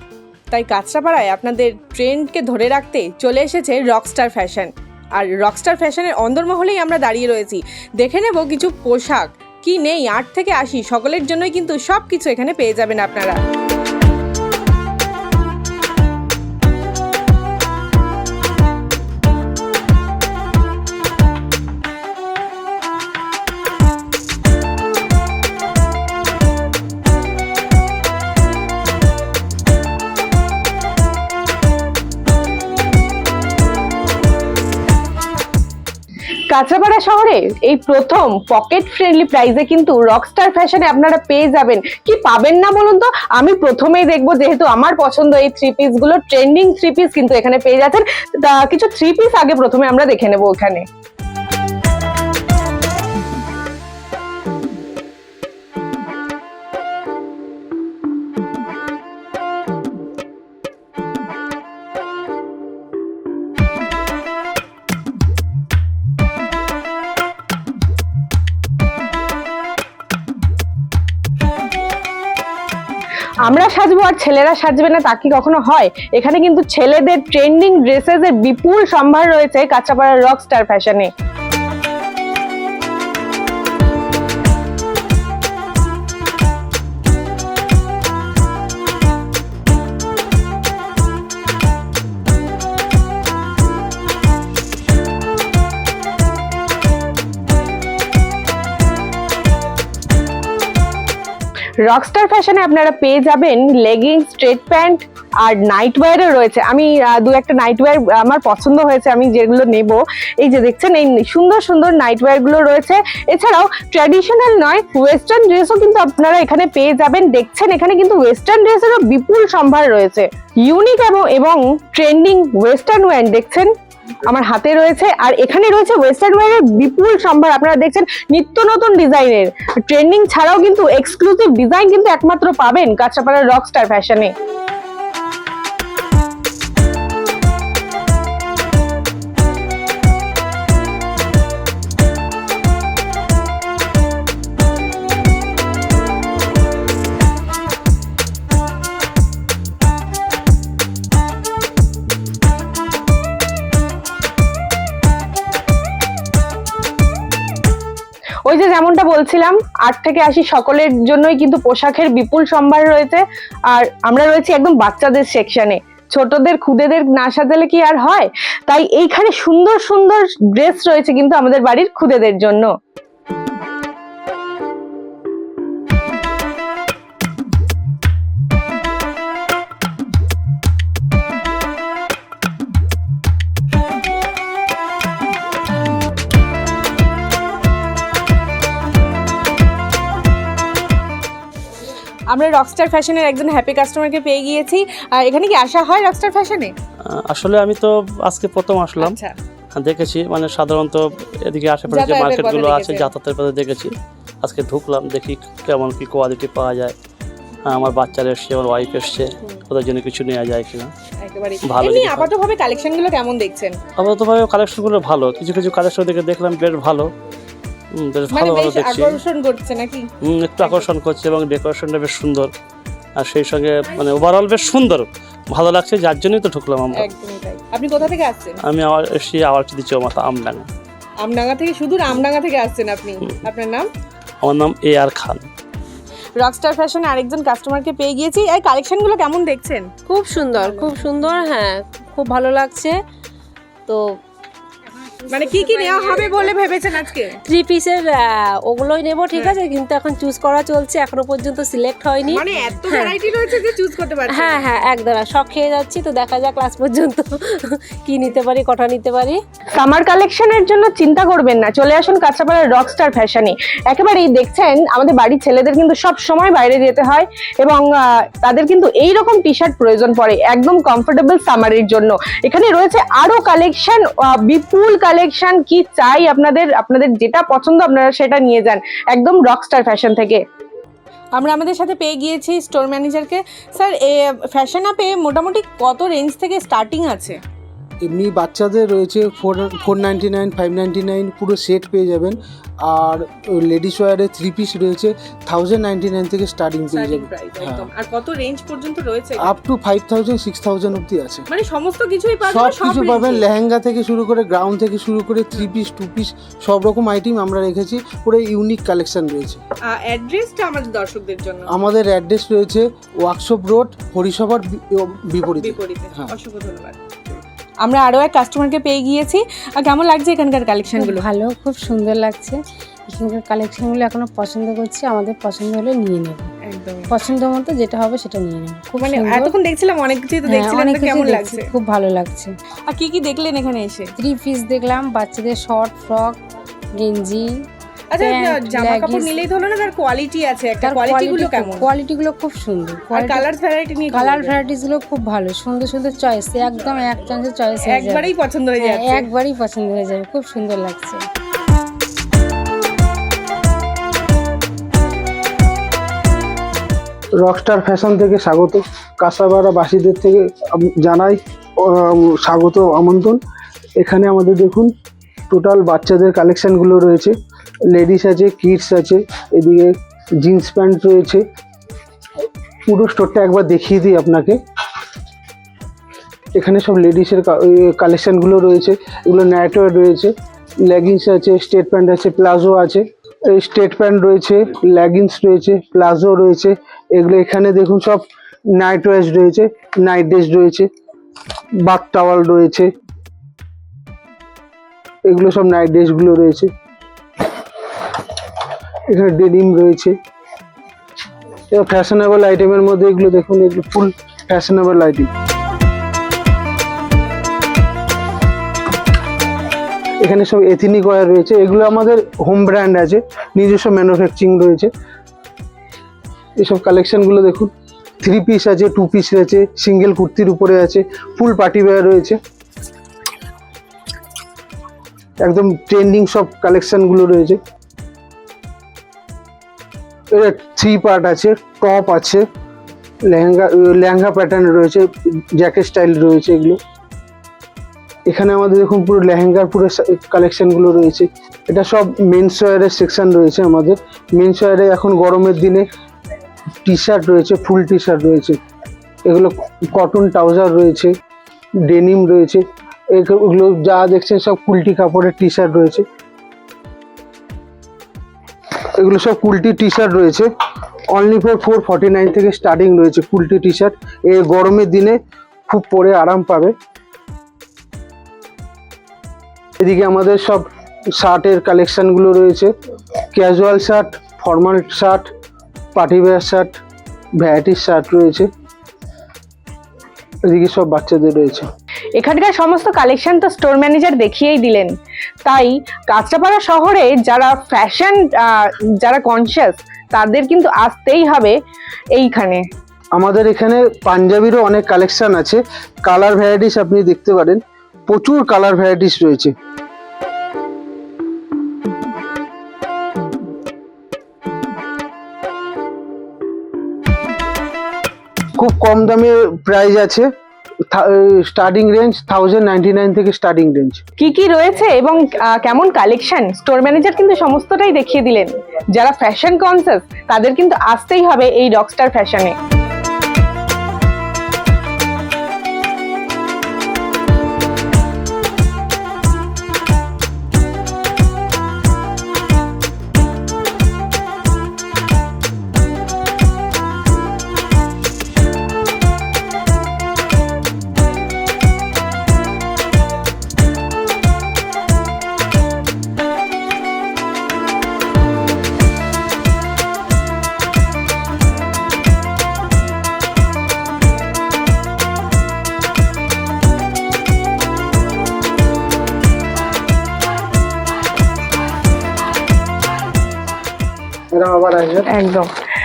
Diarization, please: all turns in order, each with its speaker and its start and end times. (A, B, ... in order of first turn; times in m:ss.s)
0:00.5-0:13.4 A
0:36.5-0:50.8 A
1:13.4-1:21.1 A
1:41.9-2:03.7 A
2:04.3-2:14.3 A
2:38.4-2:52.7 A
3:12.3-3:16.7 A
3:17.3-3:19.2 B
3:19.0-3:19.3 A
3:19.8-3:26.9 B
3:21.9-3:23.1 A
3:27.7-3:30.9 B
3:31.2-3:33.8 A
3:31.6-3:32.3 B
3:34.0-3:37.1 B
3:37.9-3:39.2 B
3:38.3-3:40.1 A
3:40.2-3:42.5 B
3:43.2-3:47.1 B
3:46.9-3:48.6 A
3:48.6-3:50.7 B
3:51.2-3:53.9 A
3:54.4-3:55.5 B
3:56.4-3:59.9 A
4:00.1-4:03.0 C
4:00.2-4:01.8 D
4:02.5-4:02.9 D
4:05.3-4:07.4 A
4:05.6-4:06.2 D
4:07.5-4:08.0 D
4:07.6-4:13.1 C
4:08.6-4:12.9 D
4:12.2-4:14.8 A
4:14.3-4:17.4 C
4:14.5-4:17.2 D
4:18.1-4:19.4 C
4:18.2-4:19.4 D
4:19.8-4:40.4 A
4:41.4-4:47.4 A
4:48.0-4:57.9 E
4:56.9-4:59.6 A
4:59.4-5:01.5 E
5:01.5-5:03.5 A
5:02.4-5:09.6 E
5:09.8-5:11.7 A
5:11.7-5:16.4 E
5:15.6-5:17.0 A
5:17.8-5:21.2 A
5:21.0-5:26.5 D
5:26.6-5:27.0 A
5:27.1-5:29.6 D
5:29.0-5:31.7 A
5:30.5-5:32.5 D
5:32.9-5:34.1 A
5:34.2-5:36.4 D
5:37.0-5:37.5 D
5:38.1-5:41.9 A
5:38.2-5:39.4 D
5:40.8-5:43.5 D
5:43.1-5:44.6 A
5:44.1-5:51.2 D
5:47.9-5:49.2 A
5:57.4-6:03.4 E
6:04.0-6:04.9 E
6:05.5-6:07.4 E
6:07.9-6:11.4 E
6:12.9-6:14.6 E
6:16.6-6:30.9 E
6:31.8-6:32.9 E
6:35.2-6:36.7 E
6:39.1-6:40.2 E
6:41.7-6:45.3 E
6:50.2-6:54.9 E
6:56.6-7:02.4 E
7:05.4-7:07.6 E
7:10.3-7:12.5 E
7:13.3-7:16.8 E
7:18.3-7:25.9 E
7:26.8-7:28.6 E
7:29.2-7:31.2 E
7:31.8-7:36.1 E
7:38.8-7:40.5 E
7:41.1-7:46.8 E
7:49.8-7:52.7 E
7:53.3-7:55.3 E
7:55.9-7:56.8 E
7:57.4-7:58.5 E
8:00.5-8:01.7 E
8:02.2-8:04.9 A
8:05.4-8:11.6 A
8:12.2-8:12.6 A
8:13.2-8:19.5 E
8:28.6-8:30.3 E
8:30.9-8:34.0 E
8:34.2-8:42.5 A
9:24.3-9:25.1 E
9:25.1-9:25.5 A